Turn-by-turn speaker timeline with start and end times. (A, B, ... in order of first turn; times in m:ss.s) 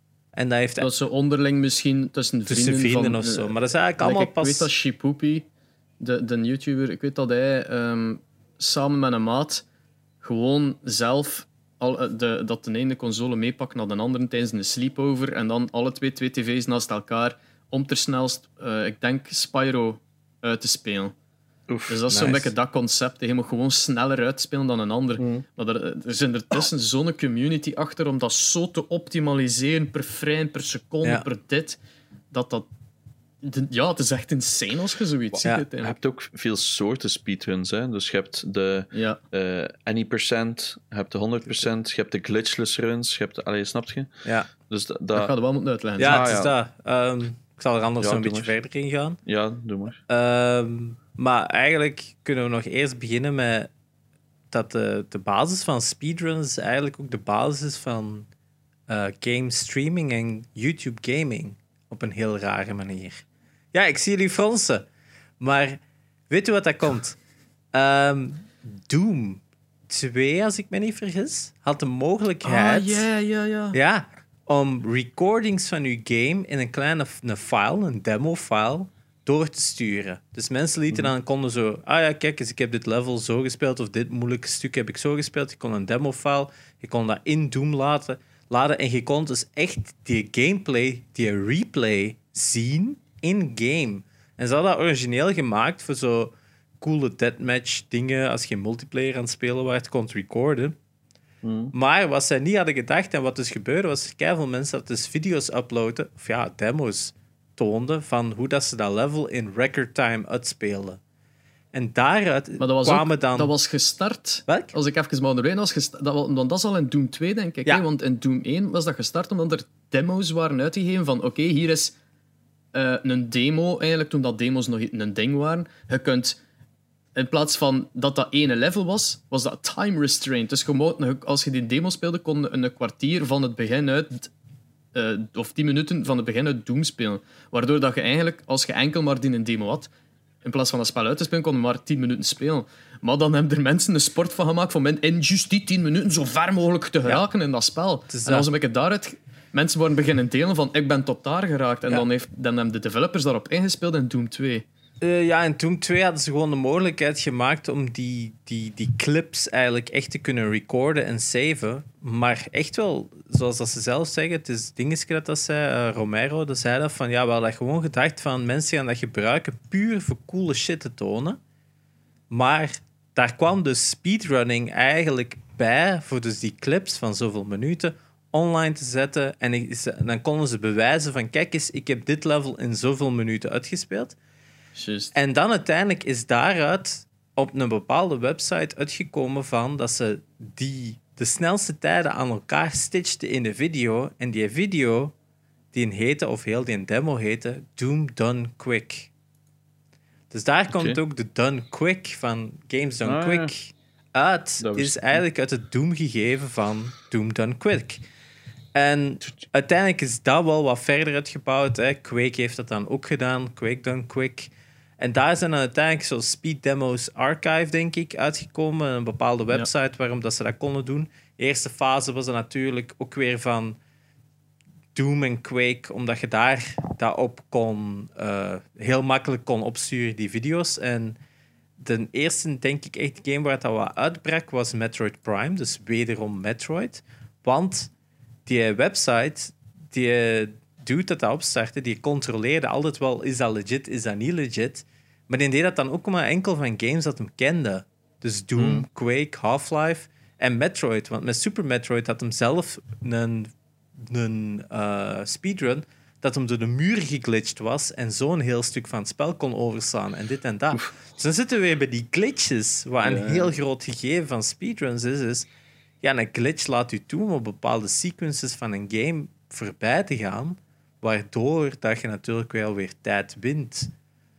0:00.3-0:00.9 A
0:00.8-0:05.5 B
0:02.5-0:04.7 A
0:06.0-0:09.6 B
0:10.2-0:21.2 B
0:21.7-0:22.0 C
0:21.9-0:31.8 B
0:22.1-0:22.5 A
0:25.2-0:25.4 C
0:32.3-0:32.7 B
0:33.4-0:36.0 B
0:35.3-0:44.1 C
0:38.9-0:39.2 B
0:44.2-0:44.5 A
0:44.7-0:45.3 C
0:45.2-0:46.4 B
0:46.0-0:49.2 A
0:46.0-0:46.5 C
0:48.0-0:48.5 C
0:49.3-0:50.0 C
0:50.1-0:53.7 A
0:54.5-0:58.3 A
0:58.9-1:04.9 A
1:05.4-1:07.2 A
1:07.7-1:13.1 A
1:12.4-1:13.8 B
1:13.7-1:40.8 A
1:41.4-1:41.7 C
1:41.7-1:51.0 A
1:51.7-1:53.5 A
1:52.6-2:02.0 B
1:54.5-1:54.7 A
2:02.7-2:06.4 B
2:07.2-2:14.3 B
2:14.9-2:19.9 B
2:20.4-2:34.7 B
2:28.1-2:28.5 A
2:35.0-2:51.4 A
2:52.3-3:04.2 A
3:04.8-3:05.1 B
3:05.1-3:15.1 A
3:15.7-3:19.1 A
3:20.3-3:28.0 A
3:20.7-3:21.0 C
3:23.0-3:23.5 C
3:24.6-3:25.2 C
3:28.8-3:43.8 A
3:45.0-3:51.2 A
3:51.8-3:57.9 A
3:58.5-4:25.5 A
4:08.6-4:08.8 C
4:23.1-4:23.5 C
4:26.0-4:33.9 A